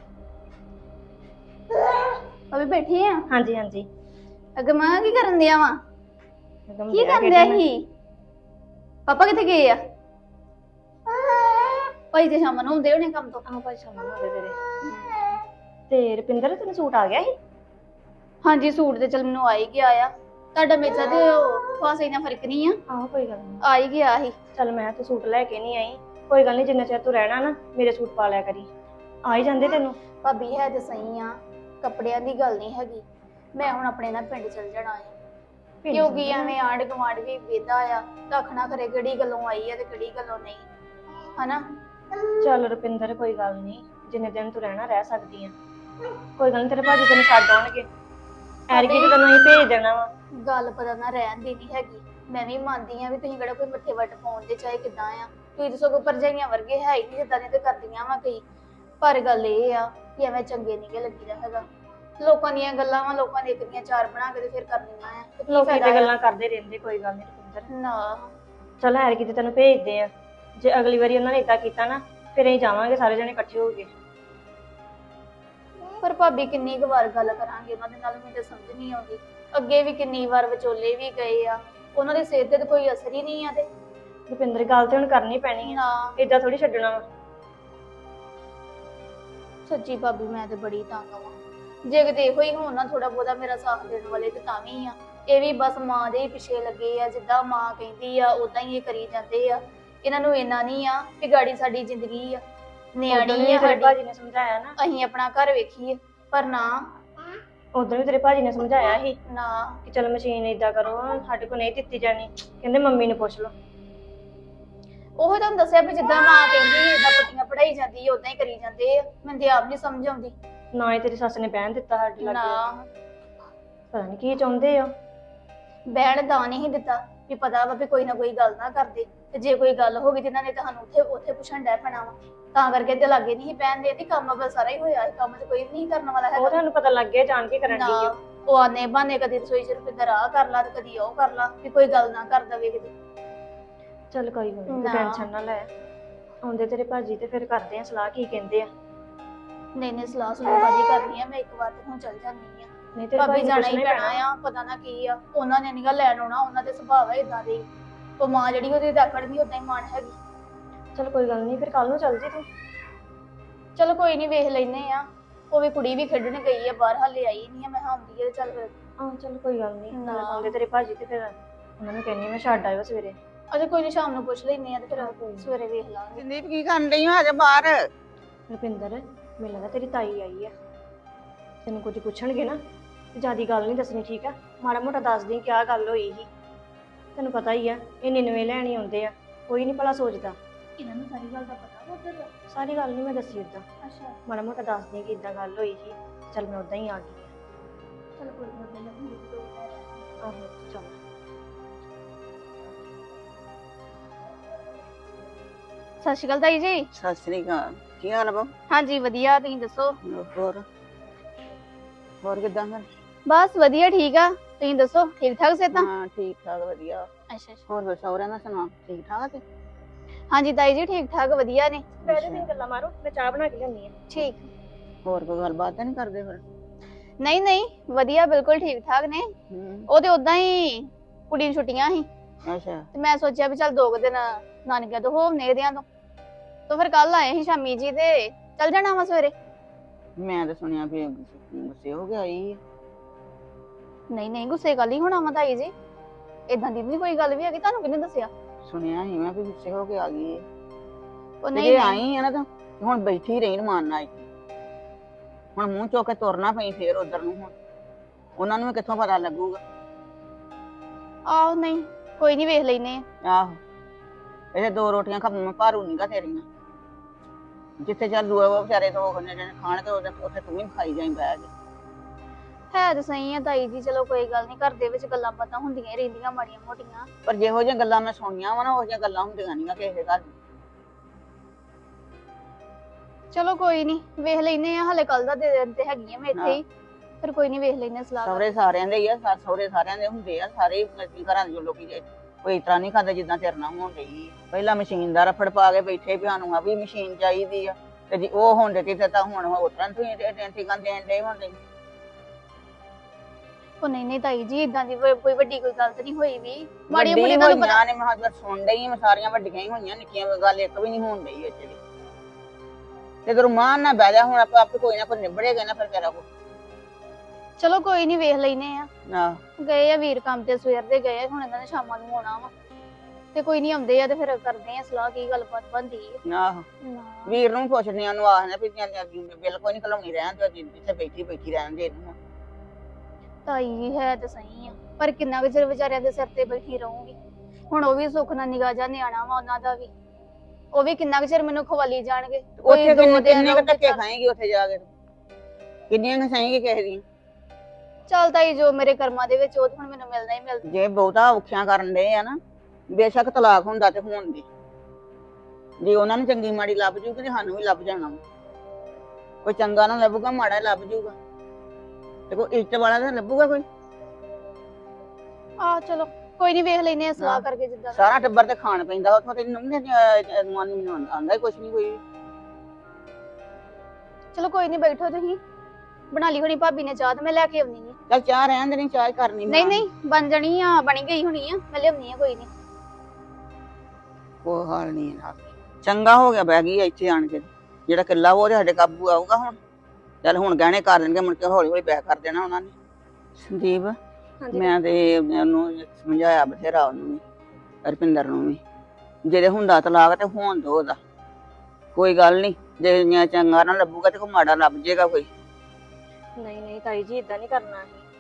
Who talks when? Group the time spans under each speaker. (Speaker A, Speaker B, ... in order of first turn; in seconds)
Speaker A: 2.5-3.2, 4.6-5.8, 6.9-7.9, 9.1-9.8, 11.2-13.4, 14.8-15.4, 18.4-22.8, 23.6-24.4, 30.2-33.0, 33.6-35.1, 35.9-40.7, 48.7-49.2, 50.5-58.4, 59.0-61.6, 62.2-66.1, 67.7-68.3, 76.0-83.7, 85.6-86.2, 89.7-102.4, 103.0-104.0, 104.8-106.9, 109.3-109.8, 115.2-120.3, 122.2-122.9, 125.9-136.6, 137.7-142.9, 144.7-145.3, 149.8-157.7, 158.2-160.2, 163.8-168.7, 169.9-170.5, 173.5-176.2, 190.8-192.3, 193.8-194.2, 198.2-200.0, 206.0-206.8, 208.7-210.0, 213.3-215.9, 217.3-217.6, 220.3-222.0, 224.1-224.5, 227.2-229.3, 229.9-232.1, 232.9-235.8, 236.7-239.3, 244.1-245.7, 246.5-248.3, 251.4-252.0, 261.3-263.1, 272.7-277.1, 283.3-286.6, 287.2-288.5, 303.8-307.8, 317.6-318.9, 319.6-322.5, 323.3-326.2, 326.8-327.4, 333.5-337.2, 337.7-339.9, 340.8-344.0, 348.1-350.6, 365.6-368.2, 374.3-375.4, 376.1-378.0, 379.5-382.5
Speaker B: 3.3-3.9, 6.7-7.6, 13.4-14.6, 15.9-17.3, 22.9-23.6, 24.6-28.7, 29.2-30.0, 35.8-36.6, 42.4-45.5, 46.4-47.9, 48.7-50.1, 65.5-67.7, 68.8-73.9, 84.3-87.0, 103.1-104.7, 107.8-109.2, 109.8-113.5, 120.7-122.6, 123.9-124.9, 136.3-138.1, 144.1-145.7, 146.4-148.7, 153.0-154.2, 160.9-162.5, 169.0-173.2, 174.9-175.5, 178.5-180.5, 181.7-182.6, 183.2-186.3, 187.2-190.4, 192.5-193.6, 194.3-197.3, 200.2-201.0, 222.1-223.9, 394.4-394.7, 406.4-408.1
Speaker C: 176.2-177.9, 206.9-208.5, 210.1-210.7, 212.2-212.9, 215.7-217.1, 217.7-219.4, 222.1-222.5, 225.1-226.4, 229.5-229.9, 232.4-232.9, 240.2-242.6, 248.7-250.4, 251.6-254.3, 255.6-257.5, 258.4-259.6, 263.2-263.6, 264.5-266.4, 267.8-271.5, 277.3-280.3, 288.2-301.6, 306.9-311.8, 313.2-316.3, 319.1-319.4, 326.3-326.7, 327.3-332.2, 342.6-344.9, 345.9-347.0, 350.7-352.4, 352.9-354.5, 355.8-358.2, 359.4-361.2, 362.3-363.6, 367.2-372.0, 378.1-379.9, 384.4-389.6, 390.2-392.7, 393.4-394.0, 394.5-397.2, 397.9-398.6, 399.2-401.0, 401.9-405.3